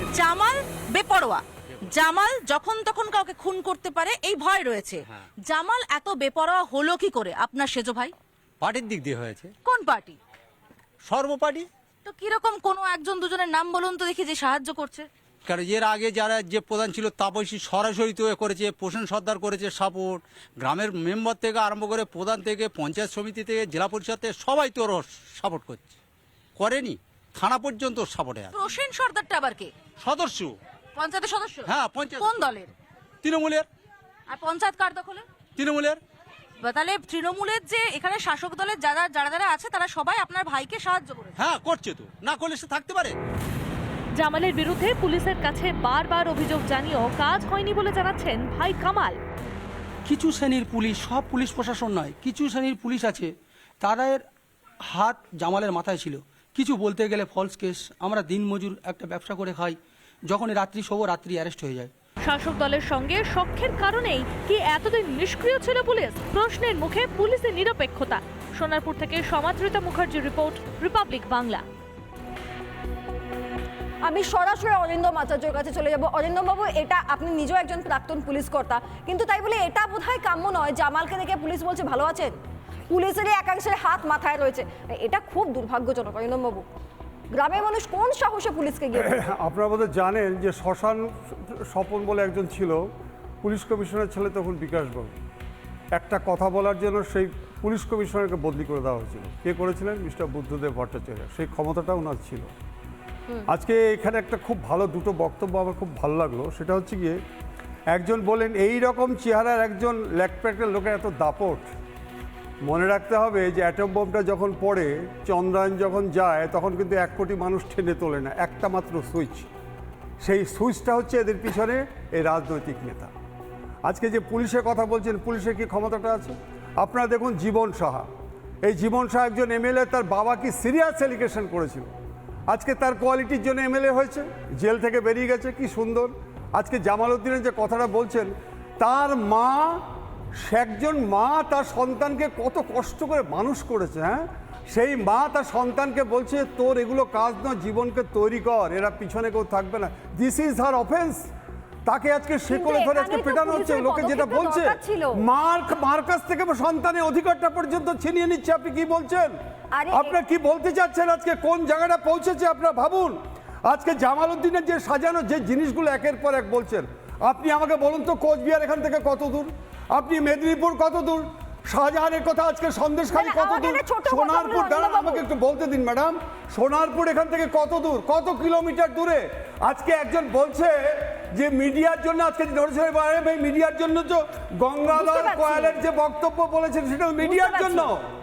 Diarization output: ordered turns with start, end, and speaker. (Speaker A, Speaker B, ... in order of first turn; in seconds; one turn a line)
Speaker A: 0.1-8.1
Speaker B: 8.6-9.5
Speaker A: 9.6-10.2
Speaker B: 11.0-11.7
Speaker A: 12.0-15.1
Speaker B: 15.4-25.9
Speaker B: 26.6-28.5
Speaker A: 28.5-29.7
Speaker B: 30.0-30.5
Speaker A: 30.9-32.7
Speaker B: 31.7-32.2
Speaker B: 33.2-33.7
Speaker A: 34.3-35.2
Speaker B: 35.6-36.0
Speaker A: 36.6-41.4
Speaker B: 41.4-43.2
Speaker C: 44.1-49.1
Speaker D: 50.0-53.3
Speaker D: 53.8-54.2
Speaker D: 54.9-61.9
Speaker C: 62.2-71.6
Speaker E: 74.0-82.4
Speaker E: 82.9-86.7
Speaker E: 87.3-89.3
Speaker F: 88.9-92.8
Speaker F: 93.4-95.1
Speaker F: 95.9-102.5
Speaker F: 103.5-107.2
Speaker F: 107.9-111.7
Speaker F: 112.6-119.5
Speaker F: 120.2-123.1
Speaker F: 123.8-128.1
Speaker F: 128.6-131.9
Speaker F: 132.5-139.9
Speaker F: 140.4-151.2
Speaker F: 151.8-159.3
Speaker E: 152.5-155.2
Speaker E: 159.7-160.2
Speaker F: 159.9-188.0
Speaker E: 173.1-175.2
Speaker E: 184.9-185.8
Speaker E: 187.2-187.9